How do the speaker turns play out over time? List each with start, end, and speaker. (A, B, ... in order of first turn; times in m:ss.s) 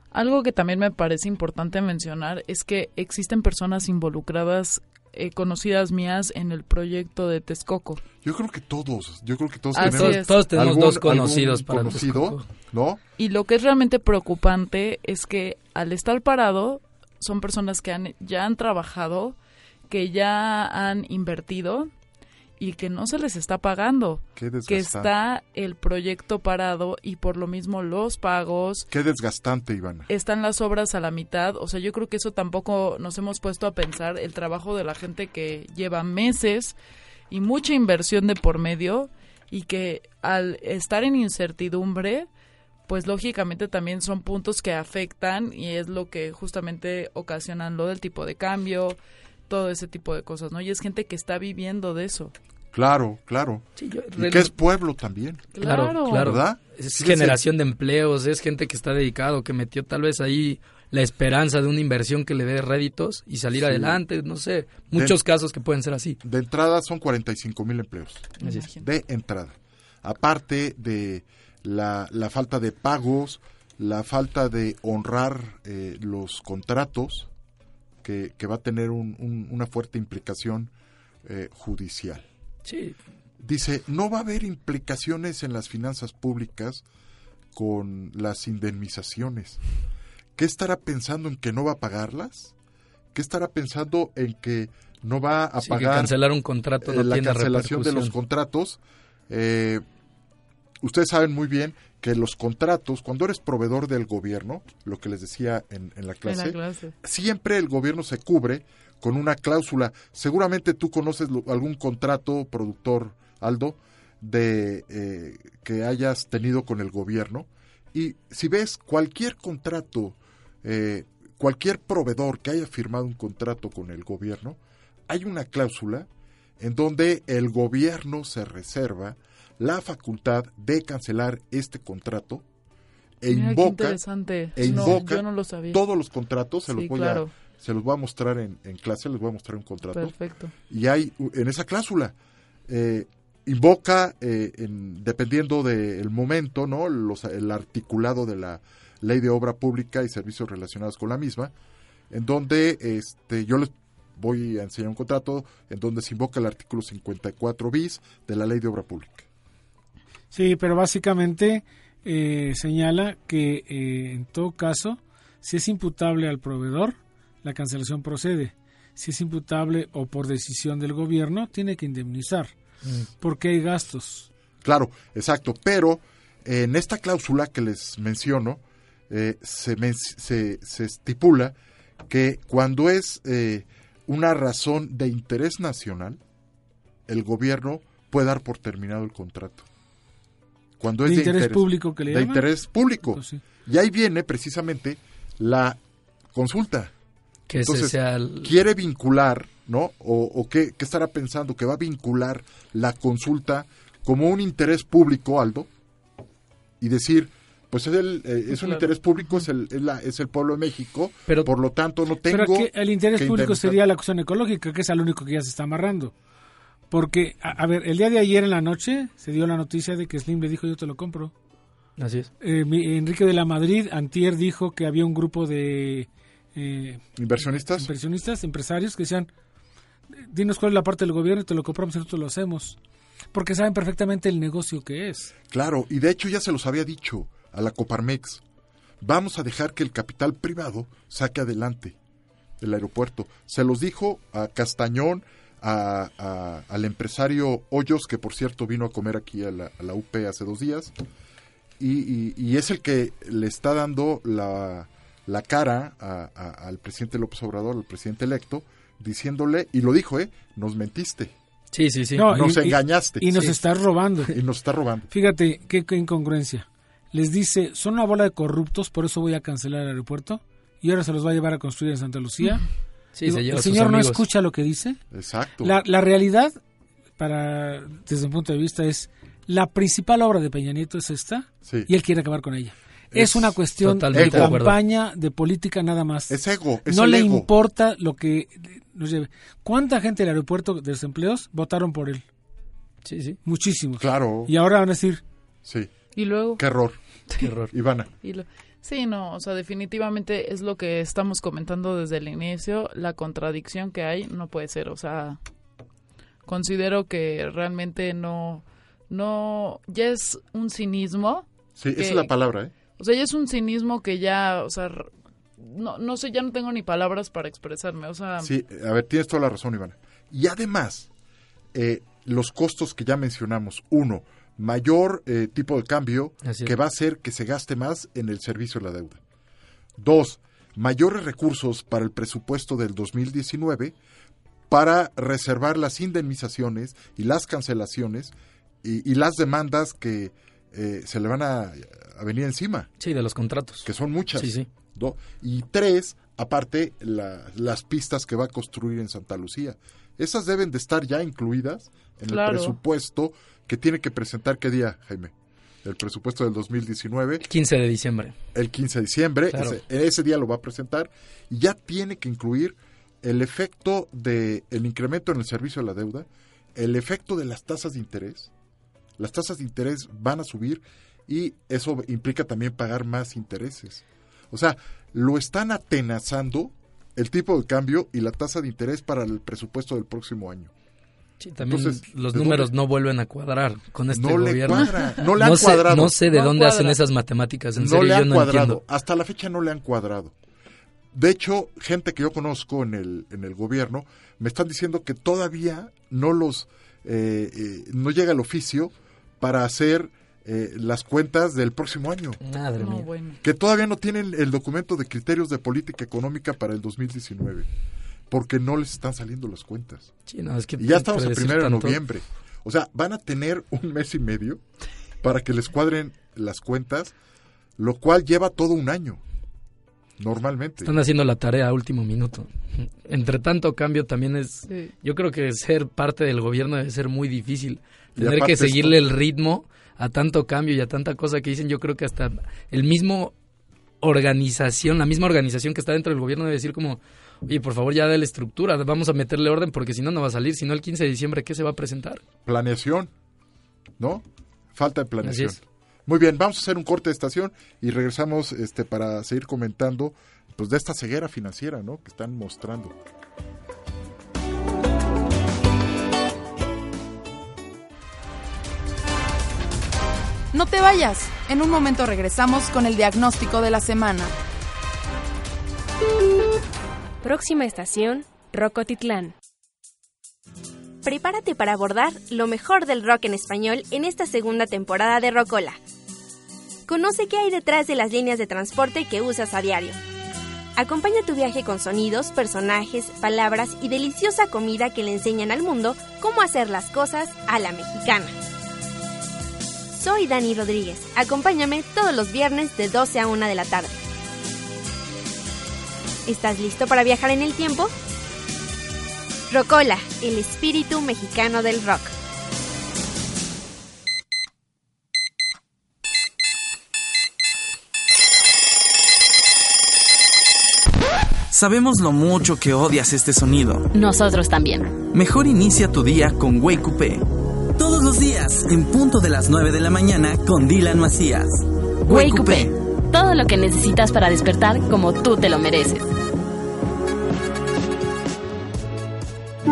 0:00.1-0:08.0 A
0:08.2-0:13.0 B
0:09.7-0:10.3 A
0:09.8-0:12.5 C
0:13.2-0:19.4 A
0:19.9-0:21.9 A
0:22.6-0:28.8 A
0:24.4-0:25.1 B
0:28.9-0:30.1 B
0:30.1-0:36.7 A
0:37.3-0:42.3 A
0:42.9-0:49.0 A
0:49.5-0:52.3 A
0:52.7-0:53.6 B
0:53.8-0:54.5 C
0:54.2-0:57.4 B
0:55.5-0:56.3 A
0:55.6-1:06.2 C
1:03.5-1:04.0 B
1:04.9-1:05.2 B
1:06.2-1:17.3 B
1:08.4-1:08.7 C
1:08.4-1:08.9 A
1:18.0-1:20.7 B
1:21.2-1:22.2 B
1:22.6-1:23.0 C
1:23.4-1:26.8 B
1:27.5-1:29.6 B
1:30.4-1:32.5 B
1:33.1-1:36.1 B
1:35.6-1:38.1 C
1:36.8-1:39.8 B
1:40.8-2:06.1 B
1:46.2-1:46.9 A
2:06.6-2:12.4 B
2:13.2-2:14.0 B
2:13.3-2:15.8 A
2:14.5-2:20.1 B
2:16.7-2:17.3 A
2:19.9-2:20.5 A
2:20.7-2:22.1 B
2:22.7-2:31.5 B
2:32.1-2:39.3 B
2:40.3-2:52.5 D
2:53.2-2:54.3 D
2:54.6-3:01.5 B
3:02.1-3:06.2 B
3:07.1-3:09.6 B
3:10.8-3:15.8 B
3:11.0-3:13.4 D
3:16.3-3:16.9 B
3:17.5-3:18.5 C
3:17.6-3:25.7 B
3:26.8-3:33.8 B
3:28.5-3:28.9 A
3:32.3-3:36.1 D
3:36.9-3:41.3 D
3:42.0-3:42.3 C
3:42.4-3:49.3 D
3:47.2-3:47.9 B
3:50.3-3:52.8 D
3:53.3-3:55.3 D
3:55.5-3:58.4 B
3:59.0-4:02.0 B
4:02.6-4:10.9 B
4:11.8-4:21.3 B
4:21.7-4:22.3 C
4:22.2-4:24.4 D
4:22.3-4:23.5 B
4:24.3-4:25.1 B
4:25.1-4:32.7 D
4:33.1-4:34.2 C
4:33.2-4:35.0 D
4:35.1-4:35.8 B
4:35.6-4:36.5 D
4:37.2-4:52.2 D
4:41.6-4:41.9 B
4:43.1-4:43.6 B
4:43.8-4:44.8 C
4:44.1-4:44.7 B
4:46.3-4:47.5 B
4:53.0-4:53.4 C
4:53.4-4:55.2 D
4:54.0-4:54.5 B
4:55.6-4:55.9 B
4:56.1-4:56.6 A
4:56.6-4:57.0 B
4:57.4-4:57.7 C
4:57.7-4:58.1 B
4:58.2-5:05.4 A
5:06.5-5:12.3 A
5:11.8-5:12.7 B
5:13.0-5:18.5 A
5:18.4-5:21.1 B
5:21.7-5:29.2 B
5:26.4-5:26.7 C
5:30.0-5:33.9 B
5:34.7-5:42.9 B
5:43.0-5:44.7 C
5:43.8-5:55.3 B
5:52.3-5:52.8 A
5:55.8-5:57.4 B
5:57.5-5:58.3 C
5:58.5-6:08.5 B
5:59.5-5:59.8 C
6:09.2-6:20.7 B
6:21.4-6:28.8 C
6:21.6-6:22.7 B
6:24.1-6:26.2 B
6:26.3-6:27.0 A
6:27.8-6:30.3 B
6:31.1-6:42.4 B
6:42.4-6:43.1 C
6:42.8-6:43.4 A
6:43.4-6:47.7 B
6:48.3-6:50.1 B
6:50.3-6:52.0 C
6:50.8-6:54.6 B
6:55.2-6:57.1 B
6:57.8-6:59.2 B
7:00.2-7:00.9 B
7:00.8-7:13.3 C
7:08.2-7:09.0 B
7:14.0-7:22.2 C
7:22.4-7:23.1 B
7:24.0-7:32.9 B
7:25.2-7:25.6 C
7:40.5-7:44.3 E
7:47.2-7:49.3 F
7:51.0-7:55.8 G
7:56.9-8:00.0 G
8:00.7-8:08.3 G
8:09.9-8:14.0 G
8:16.2-8:17.9 G
8:19.5-8:22.1 G
8:31.5-8:33.9 H
8:33.9-8:35.0 F
8:35.1-8:42.8 H
8:42.1-8:46.0 F